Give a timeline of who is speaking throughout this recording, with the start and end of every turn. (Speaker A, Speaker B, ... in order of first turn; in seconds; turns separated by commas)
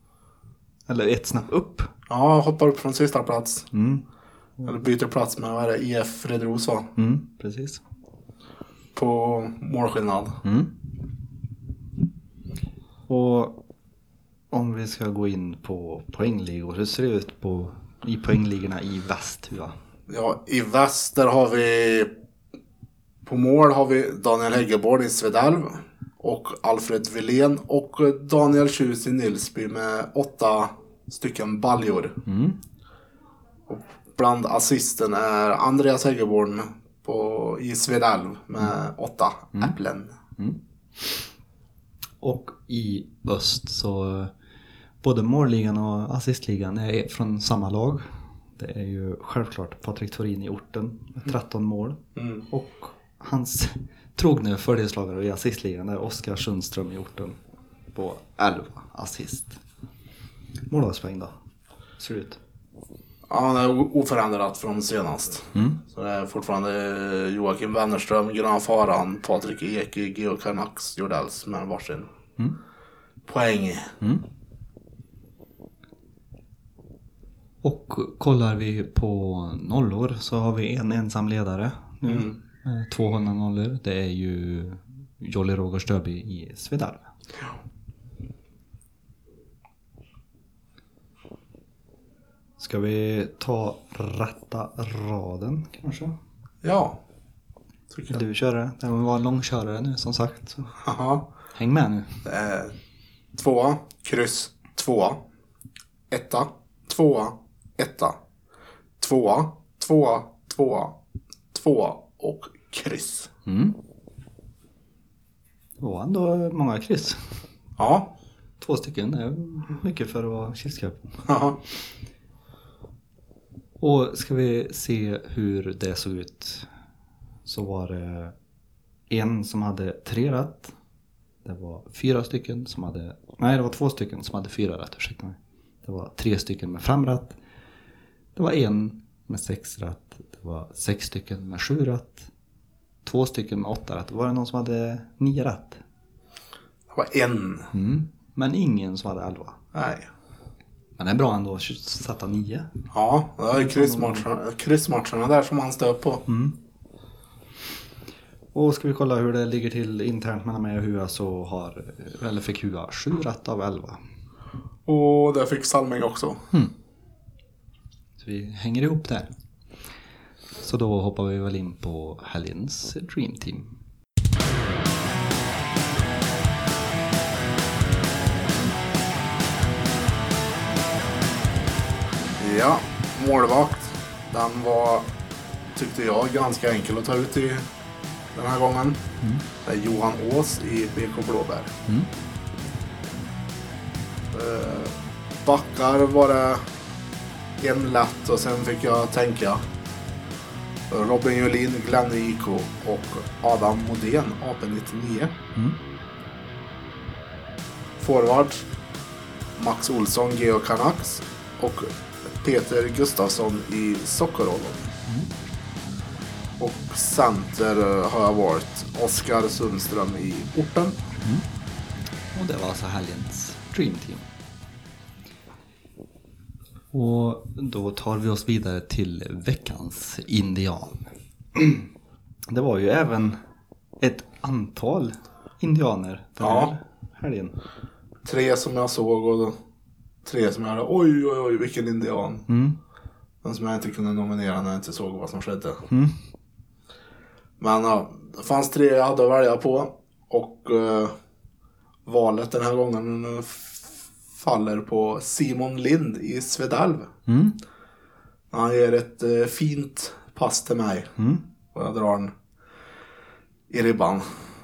Speaker A: 0.9-1.9, Speaker B: 2.1-3.7, Speaker A: 3.7-4.0, Speaker B: 4.6-6.9, Speaker A: 7.0-7.8, Speaker B: 8.9-10.4, Speaker A: 10.4-10.7, Speaker A: 13.1-13.6, Speaker A: 14.5-19.7, Speaker B: 20.1-22.1, Speaker B: 23.2-32.2, Speaker A: 32.2-32.6, Speaker B: 33.7-40.1, Speaker A: 40.4-41.3, Speaker A: 42.2-44.3, Speaker A: 45.0-48.0, Speaker A: 48.6-57.4, Speaker B: 52.2-52.4, Speaker A: 57.9-59.6, Speaker A: 60.7-61.3, Speaker A: 62.0-62.4, Speaker B: 63.3-72.1, Speaker A: 65.5-65.8, Speaker B: 73.2-73.9, Speaker A: 74.0-74.2, Speaker A: 77.6-87.1, Speaker B: 82.0-82.3, Speaker A: 92.6-96.2, Speaker B: 96.6-97.0, Speaker B: 97.9-98.2, Speaker A: 98.1-100.8, Speaker B: 100.8-101.3, Speaker A: 101.5-102.2, Speaker B: 102.2-102.7, Speaker B: 103.3-105.2, Speaker B: 106.1-108.2, Speaker B: 109.0-111.0, Speaker B: 111.5-113.3, Speaker A: 113.5-113.8, Speaker A: 115.8-117.2, Speaker B: 117.8-118.1, Speaker A: 118.6-121.2, Speaker B: 121.3-121.6, Speaker A: 123.8-126.7, Speaker A: 127.5-128.3, Speaker A: 129.1-130.7, Speaker A: 131.4-137.4, Speaker A: 138.3-142.3, Speaker A: 143.0-145.8, Speaker B: 146.9-147.7, Speaker A: 147.7-149.6, Speaker B: 149.7-150.1, Speaker A: 151.0-152.7, Speaker B: 152.9-156.2, Speaker A: 153.5-154.2, Speaker A: 156.3-156.6, Speaker A: 158.5-164.0, Speaker B: 164.8-166.4, Speaker A: 168.2-169.3, Speaker A: 170.6-173.8, Speaker B: 182.4-185.1, Speaker B: 185.7-187.7, Speaker B: 188.3-189.0, Speaker B: 189.6-191.7, Speaker B: 194.3-196.7, Speaker B: 197.6-199.6, Speaker B: 200.9-205.4, Speaker B: 208.0-208.7, Speaker B: 209.6-214.9, Speaker B: 216.6-221.0, Speaker A: 222.3-224.3, Speaker A: 226.9-231.0, Speaker A: 231.5-231.9, Speaker A: 232.5-233.4, Speaker A: 234.0-237.6, Speaker B: 236.4-236.7, Speaker B: 238.2-239.6, Speaker B: 240.2-242.4, Speaker A: 242.5-242.8, Speaker B: 243.4-245.8, Speaker A: 245.9-246.2, Speaker B: 247.6-251.1, Speaker B: 252.1-257.1, Speaker A: 257.3-257.6, Speaker B: 258.5-261.1, Speaker A: 261.2-261.4, Speaker B: 261.7-262.3, Speaker B: 263.7-264.4